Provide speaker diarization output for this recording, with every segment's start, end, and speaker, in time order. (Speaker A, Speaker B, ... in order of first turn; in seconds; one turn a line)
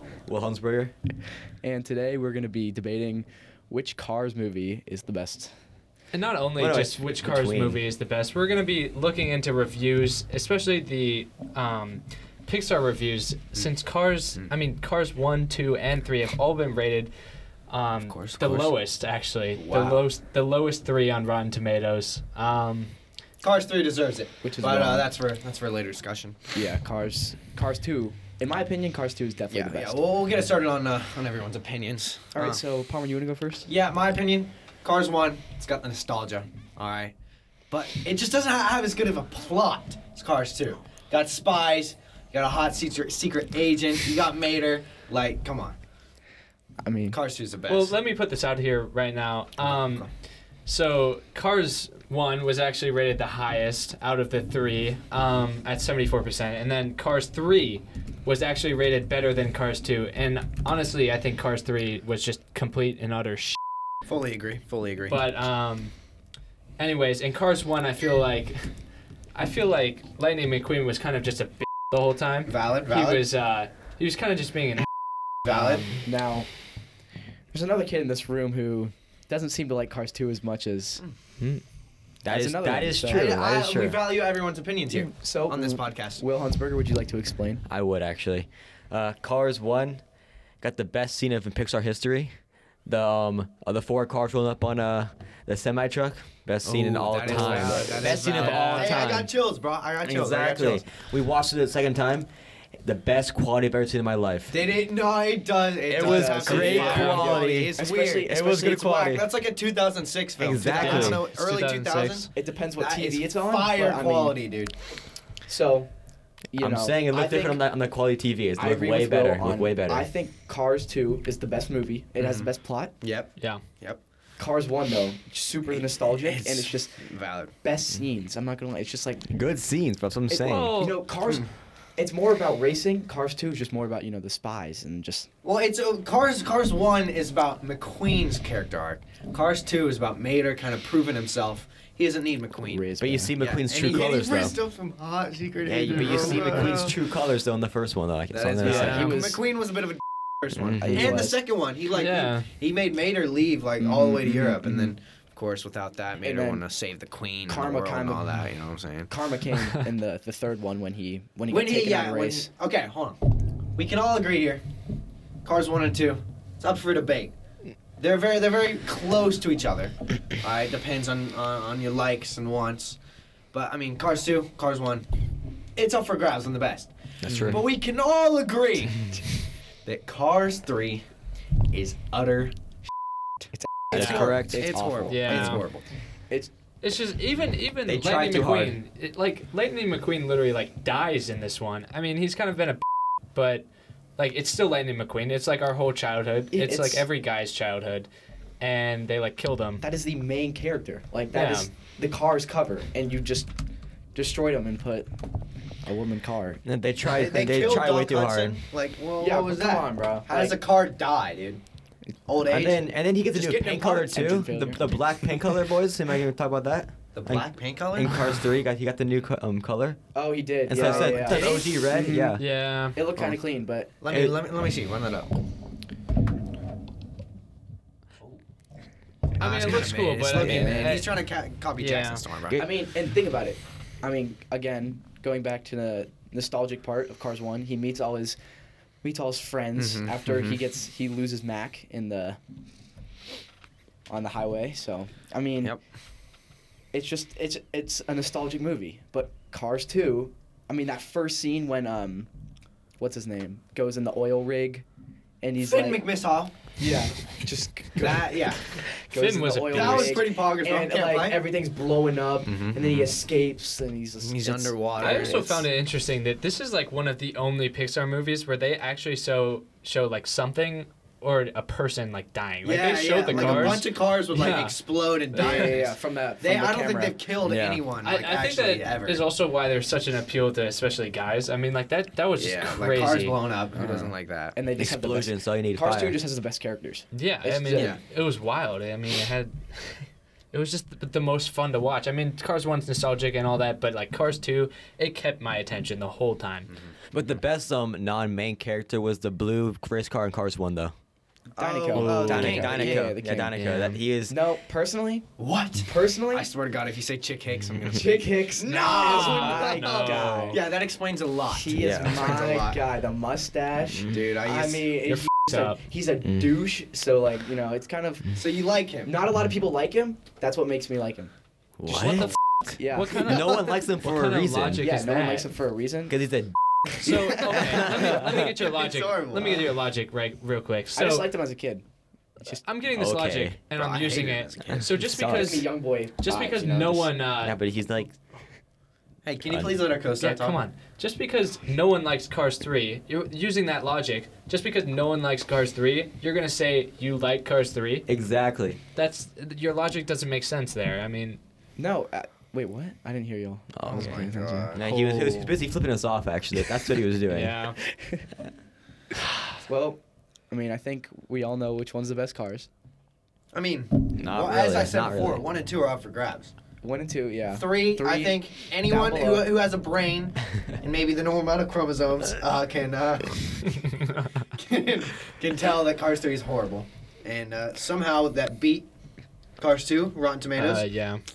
Speaker A: 0.3-0.9
Speaker B: 1.6-5.5
Speaker C: 6.1-17.1
Speaker A: 6.6-7.8
Speaker C: 17.7-22.9
Speaker D: 18.1-18.7
Speaker D: 19.6-20.1
Speaker D: 23.4-26.4
Speaker B: 24.4-25.1
Speaker B: 26.5-30.0
Speaker D: 29.5-32.6
Speaker B: 32.3-33.7
Speaker D: 33.7-37.1
Speaker D: 37.7-45.8
Speaker B: 46.8-47.2
Speaker D: 47.1-47.9
Speaker C: 47.7-50.1
Speaker D: 49.6-50.1
Speaker C: 50.7-63.6
Speaker D: 64.1-65.2
Speaker C: 65.1-65.9
Speaker C: 66.8-68.7
Speaker C: 69.3-74.9
Speaker D: 72.5-73.2
Speaker D: 75.5-75.9
Speaker C: 75.5-76.0
Speaker B: 76.0-76.5
Speaker B: 77.5-81.0
Speaker A: 82.2-84.0
Speaker B: 82.3-83.3
Speaker D: 83.1-86.2
Speaker B: 84.9-87.6
Speaker A: 87.7-90.0
Speaker A: 90.6-92.3
Speaker A: 92.8-99.3
Speaker D: 96.7-100.8
Speaker B: 97.3-98.1
Speaker C: 97.3-99.1
Speaker A: 100.0-102.3
Speaker A: 102.8-104.5
Speaker D: 104.5-114.7
Speaker A: 105.9-109.2
Speaker B: 106.0-108.8
Speaker C: 106.4-107.3
Speaker A: 110.4-111.2
Speaker C: 110.7-112.3
Speaker B: 112.3-114.4
Speaker B: 115.5-115.9
Speaker B: 116.5-117.6
Speaker A: 116.6-120.1
Speaker B: 118.6-122.9
Speaker D: 122.2-122.5
Speaker D: 123.0-124.0
Speaker B: 124.4-127.0
Speaker D: 125.7-127.5
Speaker B: 127.6-129.3
Speaker A: 129.3-130.9
Speaker C: 130.3-131.0
Speaker B: 130.8-135.3
Speaker D: 135.4-142.8
Speaker B: 142.7-143.3
Speaker A: 143.0-144.6
Speaker D: 143.4-147.0
Speaker A: 145.7-149.2
Speaker D: 148.3-159.1
Speaker C: 148.6-149.3
Speaker B: 148.6-149.4
Speaker A: 150.6-151.2
Speaker B: 150.8-151.4
Speaker C: 151.9-152.5
Speaker B: 153.8-154.7
Speaker B: 156.2-156.7
Speaker B: 157.5-158.4
Speaker B: 159.1-162.5
Speaker D: 161.5-163.2
Speaker D: 163.8-164.6
Speaker D: 165.4-167.3
Speaker D: 168.0-173.0
Speaker D: 173.5-175.1
Speaker D: 175.8-179.3
Speaker A: 177.2-177.6
Speaker C: 177.3-177.6
Speaker D: 179.8-181.1
Speaker D: 181.7-182.6
Speaker B: 183.5-185.7
Speaker A: 183.9-184.8
Speaker D: 183.9-185.8
Speaker C: 183.9-184.3
Speaker C: 185.1-185.7
Speaker C: 186.8-192.8
Speaker A: 187.9-188.8
Speaker C: 193.3-193.7
Speaker C: 194.2-198.1
Speaker B: 196.5-197.1
Speaker C: 198.6-199.8
Speaker B: 199.8-203.5
Speaker C: 201.3-201.7
Speaker B: 204.2-205.1
Speaker B: 205.8-206.6
Speaker A: 206.7-208.6
Speaker D: 207.0-211.6
Speaker B: 209.2-210.6
Speaker D: 212.3-212.9
Speaker A: 212.4-220.0
Speaker B: 213.3-215.0
Speaker D: 217.1-218.4
Speaker B: 220.1-223.9
Speaker A: 220.7-222.5
Speaker D: 220.8-221.6
Speaker C: 221.3-221.7
Speaker C: 222.4-223.0
Speaker D: 224.0-225.4
Speaker A: 224.1-224.4
Speaker C: 229.4-231.1
Speaker D: 229.4-232.6
Speaker B: 230.3-231.0
Speaker C: 231.8-232.2
Speaker B: 232.6-238.4
Speaker B: 239.0-242.4
Speaker D: 239.8-240.6
Speaker B: 244.1-245.8
Speaker B: 246.9-252.3
Speaker B: 253.0-254.8
Speaker B: 255.4-256.1
Speaker D: 255.6-256.5
Speaker B: 256.8-265.6
Speaker D: 258.0-258.6
Speaker C: 259.1-260.2
Speaker D: 259.6-261.4
Speaker D: 262.4-263.1
Speaker D: 264.2-265.6
Speaker C: 265.0-274.8
Speaker D: 272.6-279.3
Speaker B: 273.3-273.8
Speaker C: 275.3-275.8
Speaker B: 275.4-277.3
Speaker A: 277.4-277.8
Speaker C: 278.0-283.4
Speaker D: 282.4-284.6
Speaker B: 283.8-288.0
Speaker A: 284.8-286.2
Speaker C: 287.1-296.7
Speaker D: 287.7-288.0
Speaker A: 297.1-300.9
Speaker D: 301.6-303.1
Speaker B: 301.6-303.7
Speaker C: 301.9-302.7
Speaker A: 302.0-304.4
Speaker C: 303.6-304.0
Speaker B: 304.3-305.3
Speaker D: 305.4-312.8
Speaker B: 305.9-306.5
Speaker B: 307.9-310.6
Speaker C: 309.0-310.6
Speaker B: 311.5-318.3
Speaker A: 311.7-312.3
Speaker D: 314.1-315.0
Speaker C: 315.1-315.8
Speaker A: 316.2-316.6
Speaker D: 318.4-319.1
Speaker B: 319.1-321.3
Speaker A: 321.8-322.4
Speaker C: 321.9-325.5
Speaker B: 322.8-323.4
Speaker A: 323.2-324.9
Speaker B: 324.8-326.1
Speaker A: 326.1-326.6
Speaker C: 326.9-331.3
Speaker B: 327.0-328.0
Speaker A: 327.5-328.0
Speaker D: 328.2-329.8
Speaker B: 330.9-331.8
Speaker C: 332.5-337.6
Speaker A: 332.9-333.6
Speaker D: 333.7-334.9
Speaker A: 335.0-335.6
Speaker B: 335.2-337.1
Speaker A: 337.4-338.1
Speaker D: 339.2-340.6
Speaker A: 339.4-339.8
Speaker C: 340.1-348.1
Speaker A: 348.1-348.8
Speaker C: 348.9-351.4
Speaker B: 351.8-355.6
Speaker A: 353.7-357.6
Speaker D: 353.9-354.9
Speaker C: 357.3-357.8
Speaker B: 359.7-362.7
Speaker D: 363.5-366.5
Speaker A: 364.2-365.4
Speaker B: 366.8-369.5
Speaker D: 367.5-373.6
Speaker C: 373.8-374.4
Speaker D: 374.6-378.9
Speaker D: 379.6-380.9
Speaker C: 380.6-381.2